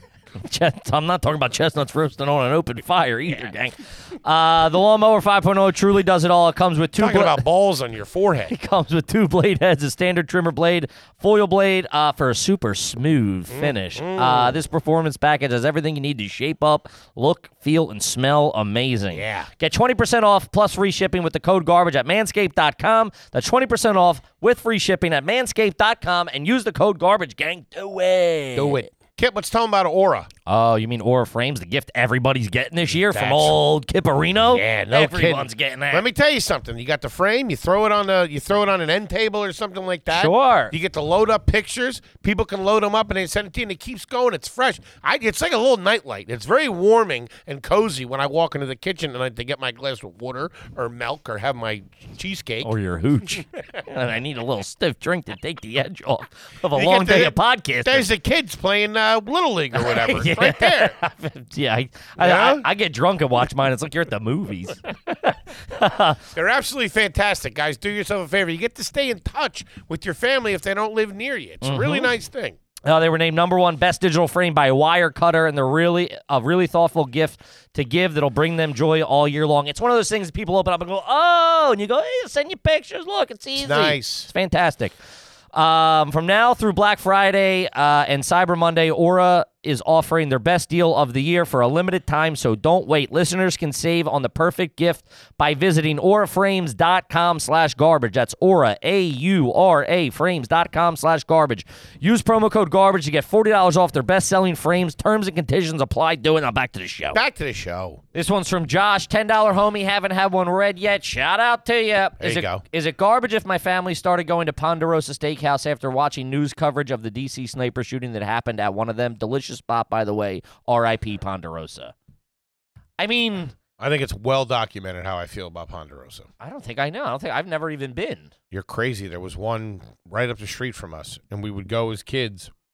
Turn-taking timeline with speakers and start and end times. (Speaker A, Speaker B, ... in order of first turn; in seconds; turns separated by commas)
Speaker A: 0.4-7.4, Speaker B: 7.0-8.6, Speaker A: 8.5-28.9, Speaker B: 13.5-14.6, Speaker B: 19.1-19.5, Speaker B: 28.6-30.3, Speaker A: 30.5-36.1, Speaker B: 33.0-33.6, Speaker B: 34.4-52.7, Speaker A: 40.1-40.7, Speaker A: 52.6-58.1, Speaker B: 56.7-61.0, Speaker A: 59.7-66.3, Speaker B: 62.2-62.7, Speaker B: 66.3-72.6, Speaker A: 71.6-72.1, Speaker A: 72.8-85.0, Speaker B: 83.6-84.3, Speaker A: 85.5-107.2, Speaker B: 107.1-108.0, Speaker A: 108.1-121.9, Speaker B: 112.2-112.6, Speaker A: 123.0-123.5, Speaker B: 123.8-126.3, Speaker A: 126.4-128.3, Speaker B: 128.5-132.5